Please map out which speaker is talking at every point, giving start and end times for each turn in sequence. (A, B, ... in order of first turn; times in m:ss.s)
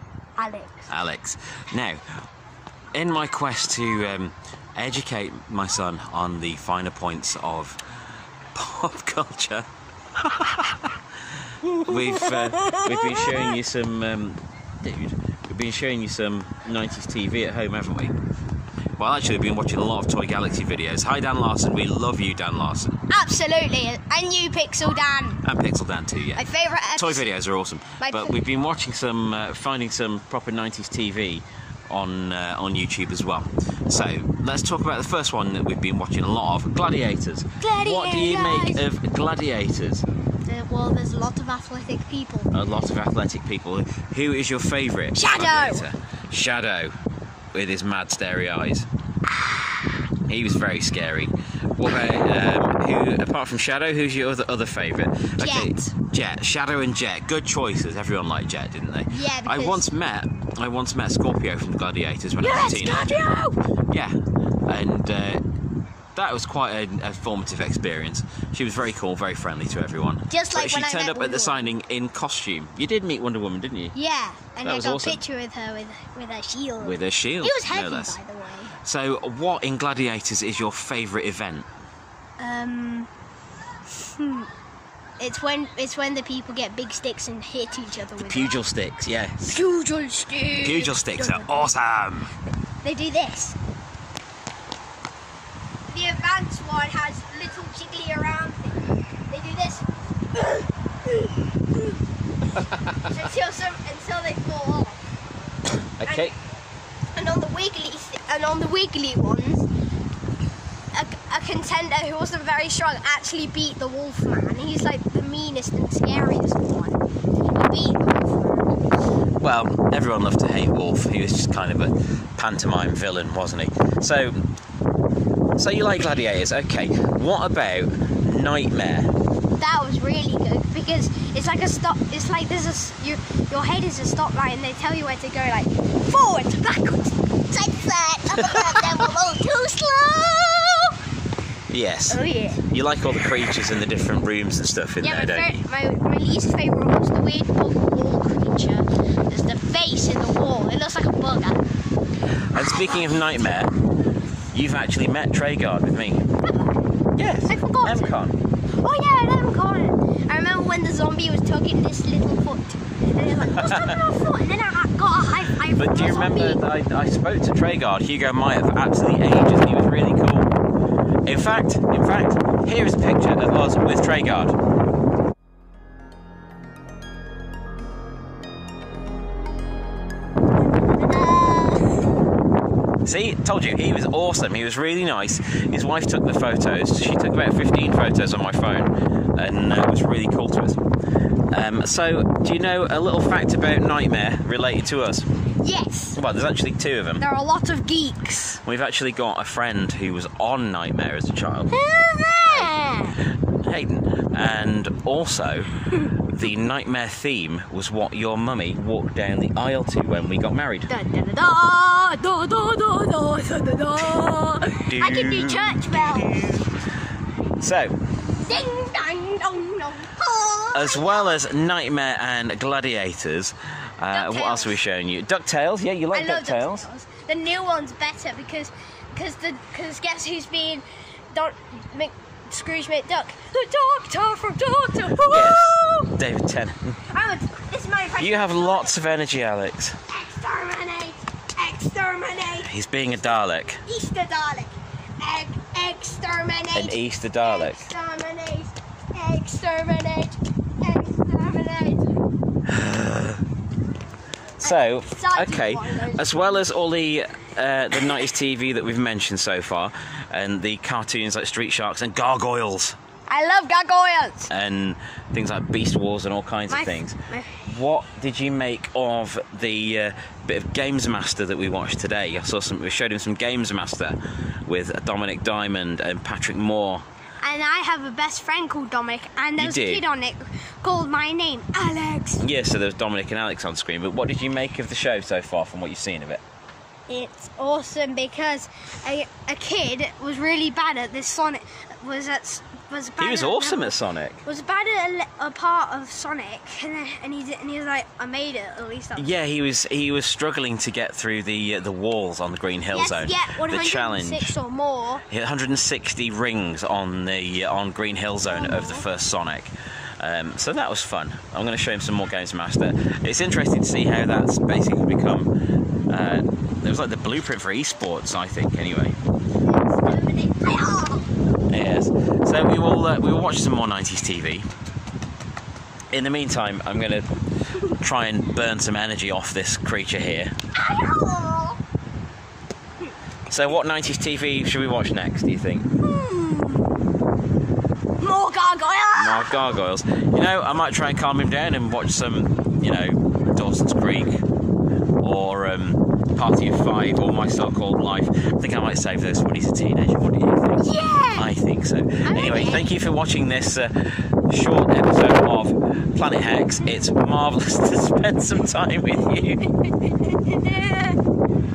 0:00.4-0:00.9 A
0:00.9-0:02.0 B
0:02.9-0:07.8 B
0:08.5-0:18.2 B
0:11.7-0:13.6 A
0:19.0-0:23.0 B
0:23.1-0:25.4 A
0:25.4-0:40.1 B
0:26.4-0:27.3 A
0:28.0-0:28.4 A
0:37.6-0:38.8 A
0:40.5-0:42.5 A
0:42.5-0:47.0 B
0:45.2-0:45.8 A
0:47.5-0:48.9 B
0:49.3-0:50.0 A
0:50.3-1:03.2 B
0:55.4-0:55.9 A
0:59.1-0:59.8 A
1:02.4-1:03.6 A
1:03.9-1:05.4 B
1:06.2-1:14.0 B
1:10.3-1:11.7 A
1:13.9-1:18.7 A
1:14.6-1:15.2 B
1:16.8-1:18.2 B
1:18.8-1:21.7 B
1:22.4-1:23.1 A
1:24.0-1:24.5 A
1:25.2-1:28.6 A
1:28.2-1:29.6 B
1:29.4-1:31.7 A
1:30.5-1:32.3 B
1:32.8-1:33.6 A
1:35.9-1:42.0 A
1:42.5-1:43.0 B
1:43.0-1:45.0 A
1:46.0-1:46.3 B
1:46.0-1:46.3 A
1:47.1-1:49.7 A
1:50.9-1:58.8 A
1:59.4-2:04.4 B
2:05.6-2:09.1 B
2:09.6-2:21.0 A
2:18.4-2:19.1 B
2:21.7-2:25.5 B
2:22.1-2:22.6 A
2:25.0-2:31.6 A
2:32.5-2:33.7 B
2:32.5-2:33.7 A
2:34.5-2:36.2 B
2:36.4-2:36.9 A
2:37.2-2:38.4 B
2:37.5-2:38.2 A
2:38.8-2:46.6 A
2:43.4-2:44.0 B
2:45.7-2:50.5 B
2:51.3-2:54.6 B
3:00.7-3:02.1 A
3:03.0-3:10.8 B
3:11.5-3:15.3 B
3:15.6-3:16.2 A
3:16.2-3:17.2 B
3:17.2-3:18.6 A
3:18.6-3:21.7 B
3:21.7-3:23.2 A
3:22.4-3:30.9 B
3:30.9-3:36.6 A
3:34.9-3:36.8 B
3:37.6-3:38.0 B
3:38.3-3:41.4 A
3:40.7-3:46.9 B
3:44.1-3:44.8 A
3:46.1-3:56.1 A
3:55.3-3:57.0 B
3:57.1-3:59.0 A
3:58.2-4:00.0 B
4:00.1-4:02.7 A
4:02.6-4:03.8 B
4:03.9-4:12.1 A
4:06.7-4:07.9 B
4:12.7-4:13.4 B
4:14.6-4:16.7 A
4:14.6-4:23.0 B
4:23.3-4:24.5 A
4:24.5-4:37.0 B
4:26.7-4:27.7 A
4:37.4-4:42.4 A
4:39.6-4:40.0 B
4:42.4-4:46.4 B
4:47.1-4:59.4 A
4:53.2-4:54.4 B
4:59.2-5:04.5 B
5:02.9-5:05.2 A
5:05.3-5:15.5 B
5:08.5-5:09.1 A
5:16.1-5:19.2 B
5:19.7-5:21.3 A
5:21.7-5:24.7 B
5:26.1-5:27.3 B
5:27.8-5:30.5 B
5:30.7-5:31.8 A
5:33.5-5:35.9 B
5:36.0-5:36.9 A
5:38.2-5:39.8 A
5:39.2-5:44.4 B
5:45.2-5:59.6 B
5:50.8-5:51.5 A
5:52.2-5:52.9 A
5:59.8-6:01.2 A